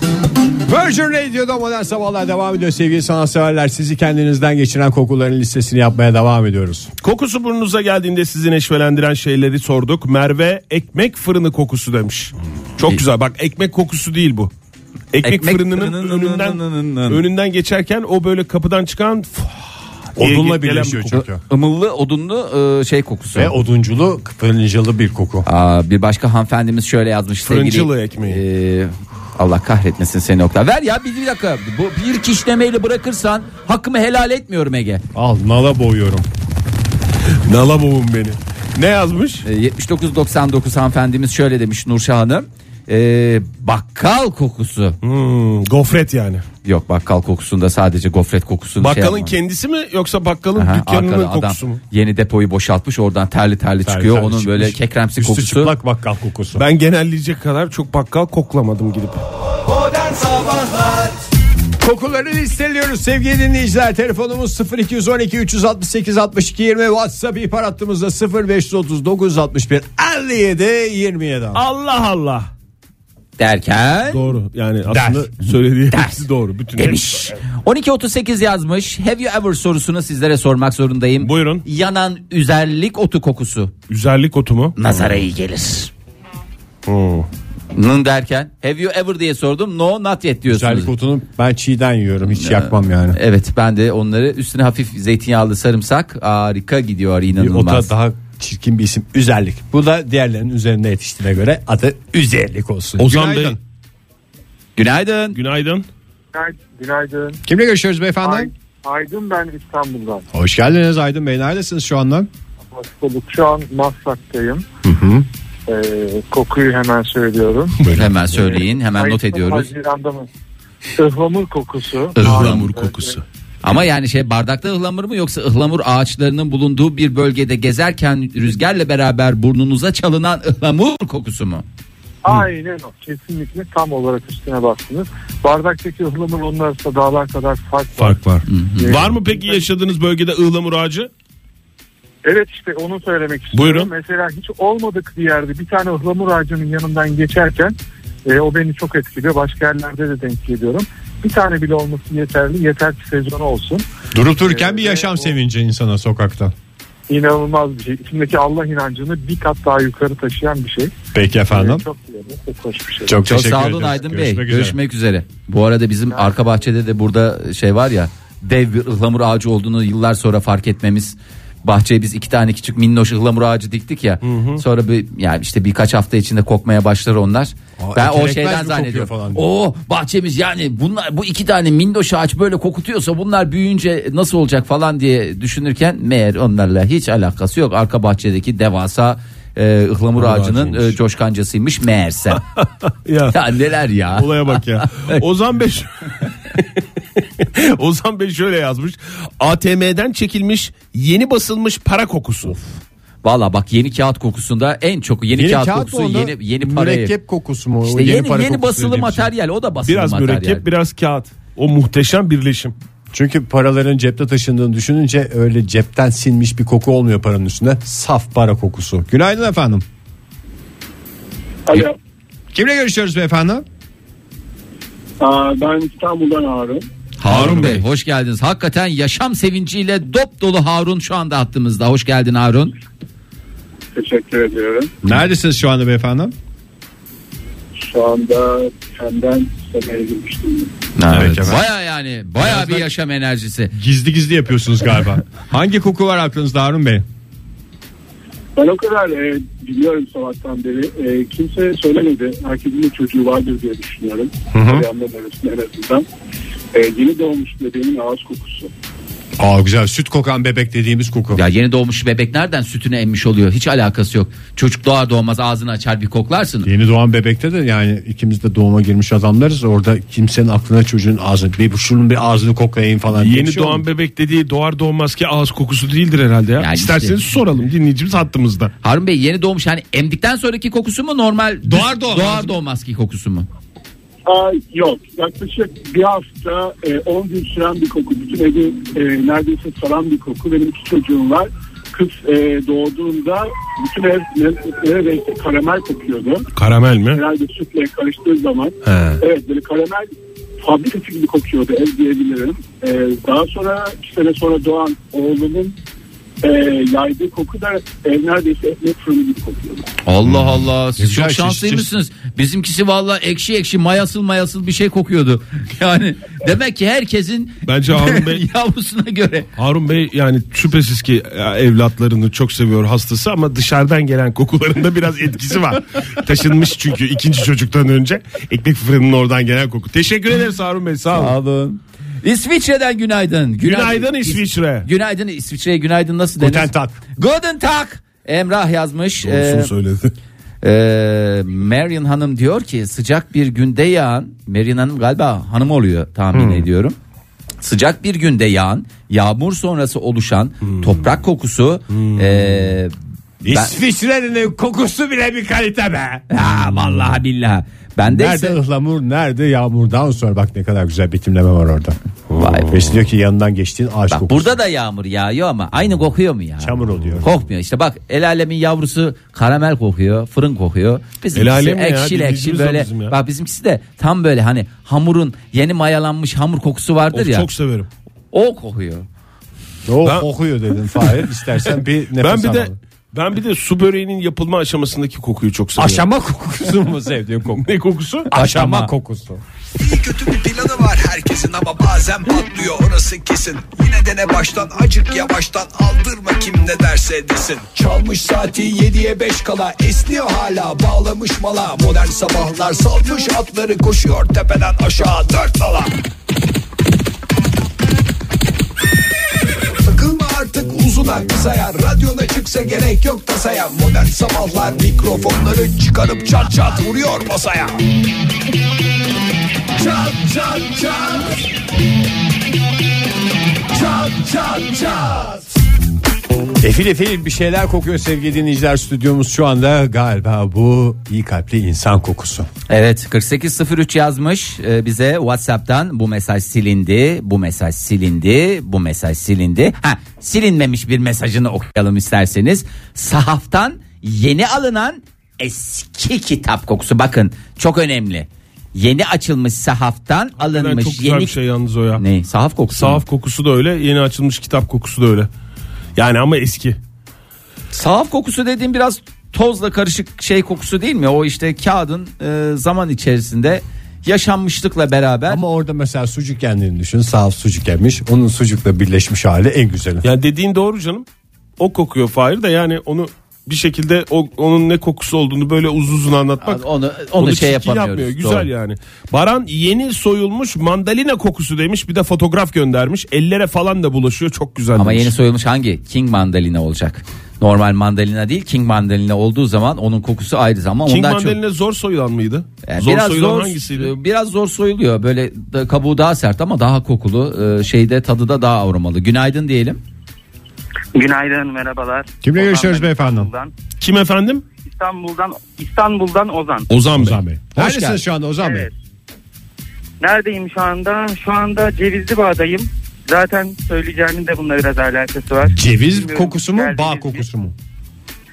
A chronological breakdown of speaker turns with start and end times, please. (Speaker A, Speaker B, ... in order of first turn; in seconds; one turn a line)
Speaker A: 0.7-6.9
Speaker B: 7.0-14.5
Speaker B: 15.1-19.6
Speaker C: 15.2-17.2
Speaker A: 20.1-21.4
Speaker B: 20.2-21.2
Speaker C: 21.1-23.5
Speaker A: 23.3-25.4
Speaker C: 25.4-35.0
Speaker B: 27.4-28.4
Speaker A: 35.1-36.3
Speaker B: 37.4-39.4
Speaker C: 39.4-45.0
Speaker B: 45.0-46.4
Speaker C: 46.6-49.3
Speaker B: 48.8-51.8
Speaker C: 50.6-55.8
Speaker A: 53.8-56.6
Speaker B: 56.5-59.2
Speaker D: 59.7-61.1
Speaker A: 61.8-71.6
Speaker B: 71.5-72.5
Speaker C: 73.4-74.3
Speaker B: 74.1-77.3
Speaker A: 74.9-75.2
Speaker C: 75.9-76.2
Speaker C: 76.8-83.7
Speaker B: 81.2-81.6
Speaker B: 83.9-84.8
Speaker C: 84.8-85.9
Speaker B: 86.8-87.3
Speaker C: 87.7-90.9
Speaker A: 90.5-93.2
Speaker C: 92.3-97.9
Speaker A: 97.4-103.6
Speaker B: 103.0-103.6
Speaker C: 104.8-105.4
Speaker B: 105.3-105.8
Speaker E: 106.3-107.4
Speaker A: 107.5-108.5
Speaker E: 108.2-110.2
Speaker A: 110.3-112.3
Speaker E: 112.7-114.7
Speaker A: 114.8-115.2
Speaker E: 115.7-120.3
Speaker A: 117.8-118.1
Speaker C: 117.9-119.7
Speaker E: 121.0-123.2
Speaker B: 122.2-123.2
Speaker C: 122.2-122.6
Speaker C: 123.6-131.6
Speaker E: 132.2-138.2
Speaker B: 138.0-141.1
Speaker C: 138.5-138.9
Speaker E: 138.8-139.7
Speaker E: 142.2-153.8
Speaker B: 143.5-143.9
Speaker A: 154.1-156.5
Speaker E: 154.4-155.3
Speaker E: 157.1-160.9
Speaker A: 161.1-161.8
Speaker E: 161.5-163.2
Speaker A: 163.1-164.8
Speaker C: 163.2-192.4
Speaker B: 174.2-174.6
Speaker A: 177.8-179.4
Speaker A: 190.2-190.9
Speaker B: 193.0-193.3
Speaker C: 193.3-195.2
Speaker B: 194.1-196.8
Speaker B: 197.4-202.6
Speaker C: 203.2-207.1
Speaker A: 205.3-209.3
Speaker C: 207.8-210.6
Speaker B: 209.8-212.7
Speaker A: 213.1-219.8
Speaker F: 221.7-221.9
Speaker A: 222.5-223.6
Speaker F: 225.2-226.8
Speaker C: 227.2-232.7
Speaker B: 227.3-227.8
Speaker A: 227.3-227.7
Speaker F: 233.9-234.9
Speaker A: 235.0-236.3
Speaker F: 237.8-240.7
Speaker C: 240.9-243.7
Speaker A: 241.1-241.7
Speaker A: 242.4-242.9
Speaker A: 243.7-247.0
Speaker F: 248.5-256.0
Speaker A: 254.5-254.8
Speaker F: 256.7-258.7
Speaker A: 259.4-261.4
Speaker C: 261.3-266.7
Speaker A: 266.6-273.9
Speaker B: 273.1-278.7
Speaker C: 276.6-277.2
Speaker C: 278.8-283.5
Speaker A: 281.6-282.6
Speaker F: 284.2-296.5
Speaker B: 296.6-297.2
Speaker F: 297.1-300.1
Speaker B: 298.8-299.2
Speaker F: 300.6-305.8
Speaker F: 306.4-309.9
Speaker C: 310.0-319.5
Speaker A: 310.3-311.9
Speaker B: 317.6-318.4
Speaker B: 319.6-331.4
Speaker C: 331.1-339.7
Speaker B: 333.6-334.9
Speaker A: 336.4-337.0
Speaker B: 339.2-340.1
Speaker C: 340.6-346.9
Speaker A: 346.3-346.7
Speaker C: 347.6-352.9
Speaker B: 350.6-351.0
Speaker B: 351.9-352.5
Speaker A: 353.4-356.2
Speaker C: 353.5-353.8
Speaker C: 356.3-358.6
Speaker A: 358.1-362.0
Speaker B: 362.3-362.8
Speaker C: 362.4-362.8
Speaker A: 362.7-364.5
Speaker C: 364.1-377.5
Speaker A: 366.6-367.3
Speaker B: 371.3-373.1
Speaker B: 377.1-377.9
Speaker C: 378.3-379.1
Speaker A: 379.9-382.8
Speaker B: 382.2-386.0
Speaker A: 385.8-387.7
Speaker B: 387.6-388.3
Speaker A: 388.3-389.4
Speaker C: 388.3-388.9
Speaker D: 389.8-405.9
Speaker D: 409.7-417.8
Speaker D: 419.8-421.4
Speaker D: 423.7-425.4
Speaker A: 426.6-432.5
Speaker C: 432.7-451.4
Speaker B: 450.4-452.0
Speaker C: 451.9-453.0
Speaker B: 452.7-455.3
Speaker B: 455.9-456.8
Speaker C: 457.7-465.4
Speaker A: 465.3-470.1
Speaker B: 470.0-471.1
Speaker B: 471.6-476.6
Speaker C: 476.4-478.5
Speaker B: 477.2-485.1
Speaker C: 484.8-491.4
Speaker B: 490.9-493.9
Speaker C: 492.6-499.8
Speaker G: 500.9-503.5
Speaker A: 502.2-503.3
Speaker B: 503.8-504.4
Speaker G: 504.6-506.7
Speaker B: 506.7-507.2
Speaker A: 506.9-508.7
Speaker C: 507.6-508.0
Speaker G: 508.4-508.7
Speaker G: 510.0-517.2
Speaker A: 515.4-517.5